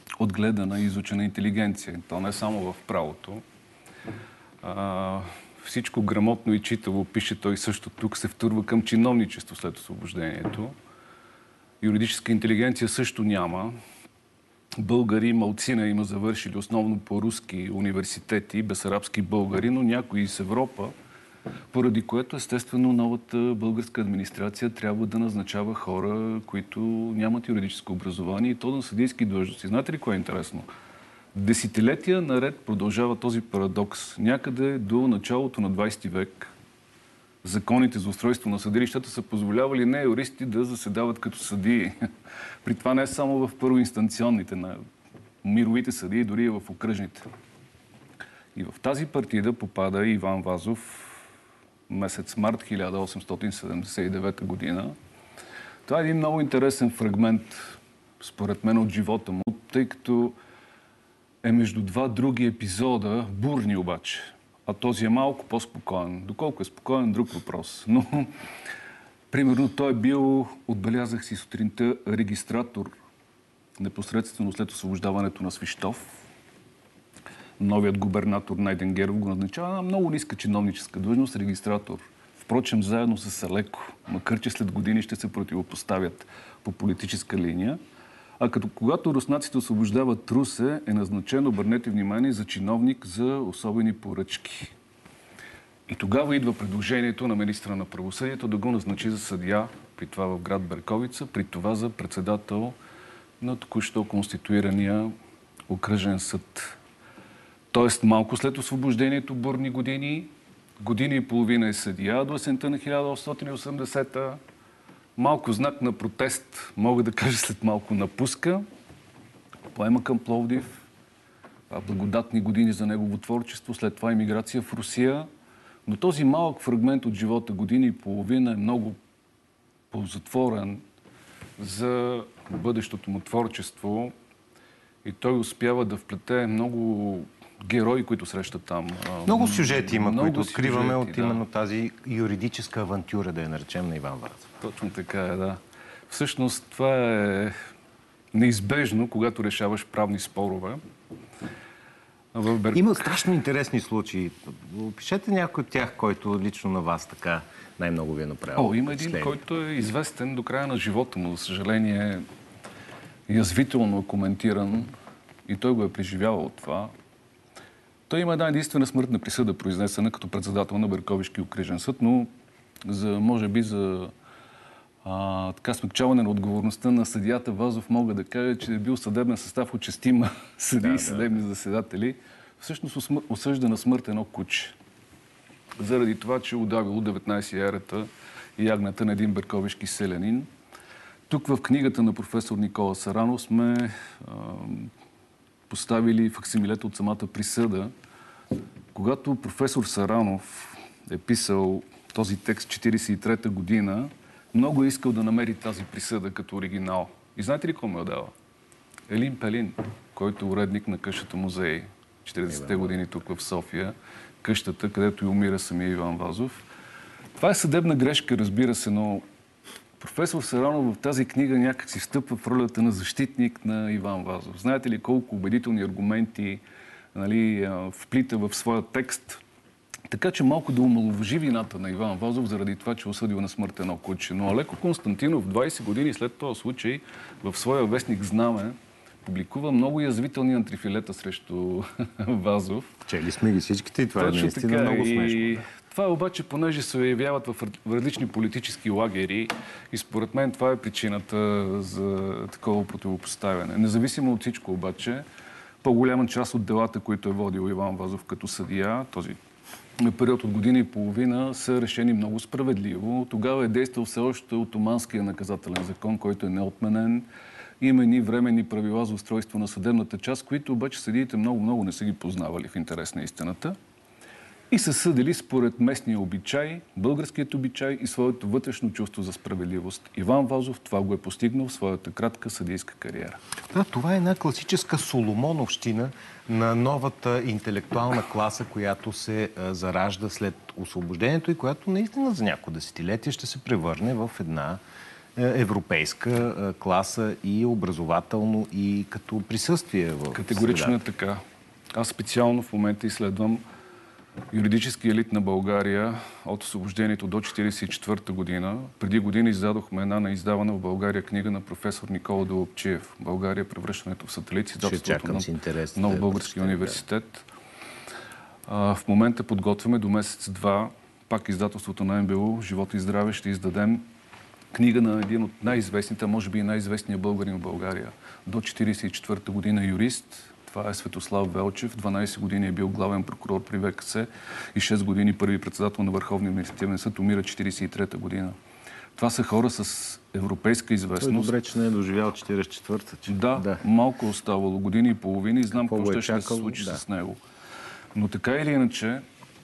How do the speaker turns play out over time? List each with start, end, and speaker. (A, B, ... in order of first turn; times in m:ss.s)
0:00.2-0:03.4 A
0:04.6-0:10.7 A
0:11.8-0:13.7 A
0:14.8-0:20.9 A
0:21.7-0:30.7 A
0:31.3-0:36.5 A
0:37.4-0:41.9 A
0:42.6-0:44.8 A
0:45.4-0:47.3 A
0:48.5-0:51.2 A
0:51.9-0:54.9 A
0:55.8-1:00.4 A
1:01.4-1:08.3 A
1:09.3-1:12.9 A
1:13.8-1:16.0 A
1:17.6-1:27.8 A
1:28.4-1:34.7 A
1:35.9-1:42.7 A
1:43.4-1:45.1 A
1:45.7-1:46.8 A
1:47.7-1:54.4 A
1:55.2-1:58.6 A
1:59.7-2:00.8 A
2:01.7-2:05.3 A
2:05.8-2:09.0 A
2:09.9-2:10.8 A
2:11.6-2:14.1 A
2:15.0-2:21.4 A
2:19.2-2:24.5 B
2:24.6-2:27.5 A
2:28.3-2:30.8 A
2:32.3-2:32.9 A
2:32.7-2:39.4 B
2:38.6-2:42.2 A
2:43.3-2:44.9 A
2:45.5-2:46.9 A
2:48.1-2:52.3 A
2:52.8-2:54.1 A
2:55.0-3:04.7 A
3:00.8-3:01.4 B
3:05.8-3:10.5 A
3:11.3-3:14.9 A
3:15.7-3:17.9 A
3:18.9-3:28.3 A
3:29.1-3:36.6 A
3:32.5-3:33.0 B
3:37.4-3:39.2 A
3:40.0-3:46.6 A
3:47.1-3:49.4 A
3:50.1-4:02.9 A
4:03.1-4:05.7 B
4:04.2-4:15.2 A
4:15.8-4:19.4 A
4:20.0-4:27.3 A
4:27.8-4:33.8 A
4:34.7-4:43.4 A
4:43.7-4:54.8 B
4:55.4-5:01.0 B
5:00.3-5:01.4 A
5:01.9-5:03.6 A
5:04.5-5:17.4 A
5:14.8-5:17.0 B
5:18.7-5:24.0 A
5:24.7-5:38.6 A
5:39.2-5:41.5 A
5:41.2-5:43.8 B
5:43.3-5:47.4 A
5:45.7-5:47.0 B
5:48.1-5:49.2 A